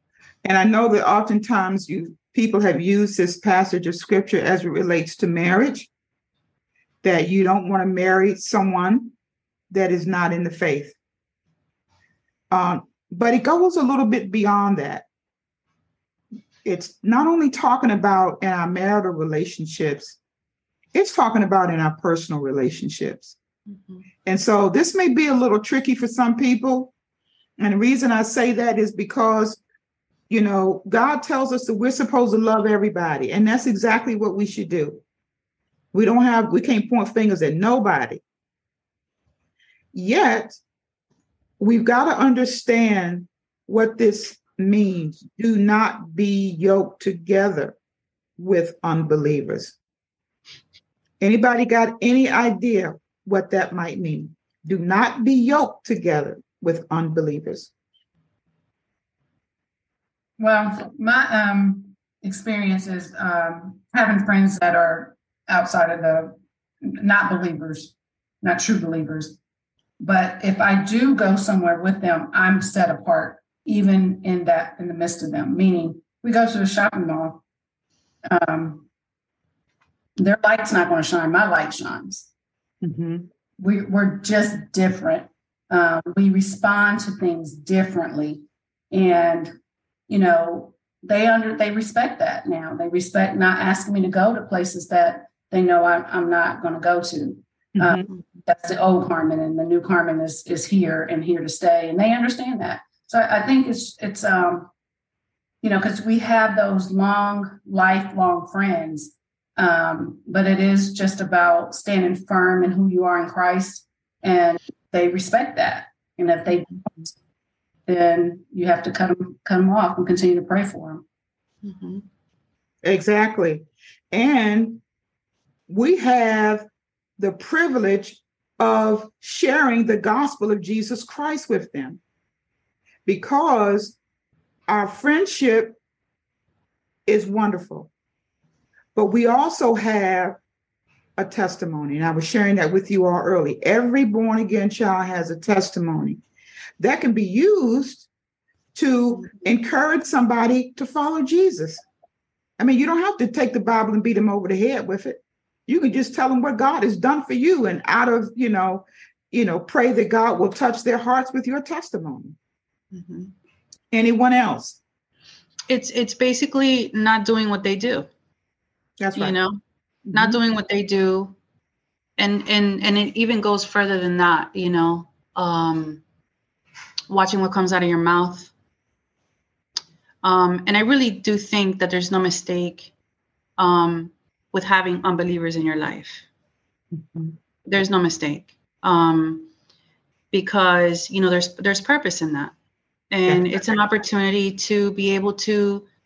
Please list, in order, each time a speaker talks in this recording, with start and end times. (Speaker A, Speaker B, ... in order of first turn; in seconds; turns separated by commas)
Speaker A: 0.4-5.9, Speaker A: 7.0-9.1, Speaker A: 9.7-11.0, Speaker A: 12.5-15.1, Speaker A: 16.6-20.2, Speaker A: 20.9-23.4, Speaker B: 23.7-24.1, Speaker A: 24.2-26.9, Speaker A: 27.6-29.6, Speaker A: 30.3-35.0, Speaker A: 35.9-38.2, Speaker A: 39.9-40.6, Speaker A: 41.6-47.8, Speaker A: 48.4-49.8, Speaker A: 51.2-57.7, Speaker C: 60.4-69.4, Speaker C: 70.0-77.4, Speaker C: 78.3-78.9, Speaker C: 80.2-82.3, Speaker A: 82.8-83.3, Speaker C: 83.6-89.5, Speaker C: 90.1-104.7, Speaker A: 97.8-98.1, Speaker C: 105.6-116.7, Speaker C: 117.9-121.0, Speaker B: 121.6-122.0, Speaker A: 122.8-124.8, Speaker A: 125.7-126.7, Speaker A: 127.2-132.0, Speaker A: 133.1-134.0, Speaker A: 134.7-135.8, Speaker A: 137.1-137.9, Speaker A: 138.9-140.4, Speaker A: 141.2-146.2, Speaker A: 146.8-148.1, Speaker A: 148.8-151.8, Speaker A: 152.6-162.4, Speaker B: 162.9-163.3, Speaker A: 163.9-164.8, Speaker B: 165.7-168.1, Speaker A: 169.0-169.4, Speaker B: 169.2-169.6, Speaker A: 170.1-170.4, Speaker B: 170.1-171.3, Speaker B: 172.2-176.0, Speaker B: 177.1-178.5, Speaker B: 180.2-182.9, Speaker B: 183.6-186.3, Speaker B: 187.7-189.5, Speaker B: 190.3-192.5, Speaker B: 193.1-195.9, Speaker A: 193.3-193.7